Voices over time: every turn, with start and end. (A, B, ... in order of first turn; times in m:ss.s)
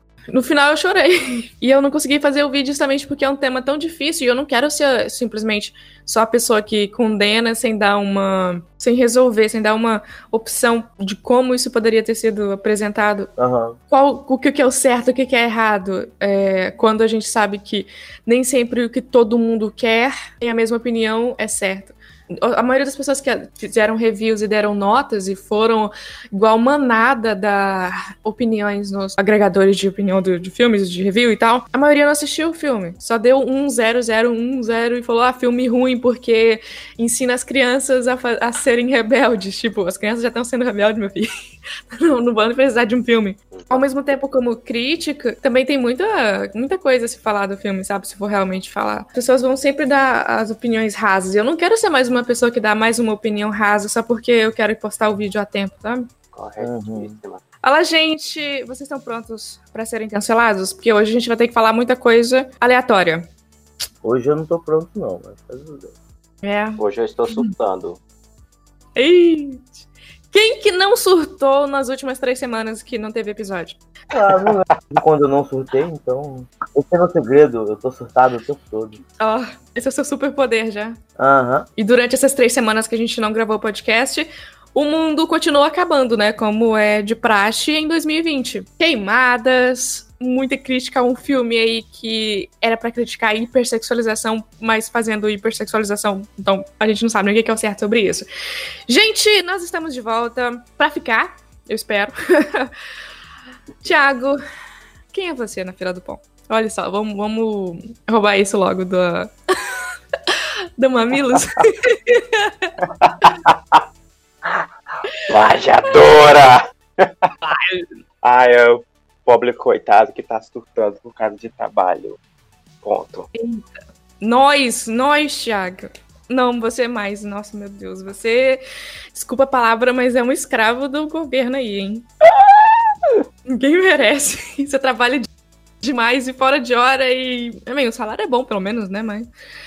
0:00.3-0:13.3 A
0:13.4-0:13.8 B
0:13.9-0:41.3 A
0:41.9-0:56.1 A
0:43.5-0:43.9 C
0:56.3-0:57.4 C
0:56.6-0:57.1 B
0:57.6-1:03.3 A
1:04.0-1:05.9 B
1:06.4-1:06.8 A
1:06.8-1:08.0 C
1:09.0-1:13.8 A
1:14.1-1:19.0 B
1:19.2-1:21.0 A
1:21.2-1:21.7 B
1:21.8-1:38.2 A
1:38.9-1:42.7 A
1:43.8-1:44.4 A
1:45.1-1:52.7 A
1:52.8-1:53.8 C
1:55.3-1:57.3 C
1:57.4-1:57.9 A
1:58.2-2:02.2 C
2:02.8-2:03.3 C
2:03.3-2:03.6 A
2:04.2-2:08.6 A
2:09.1-2:12.0 A
2:12.3-2:12.8 C
2:13.4-2:15.3 A
2:15.8-2:19.3 A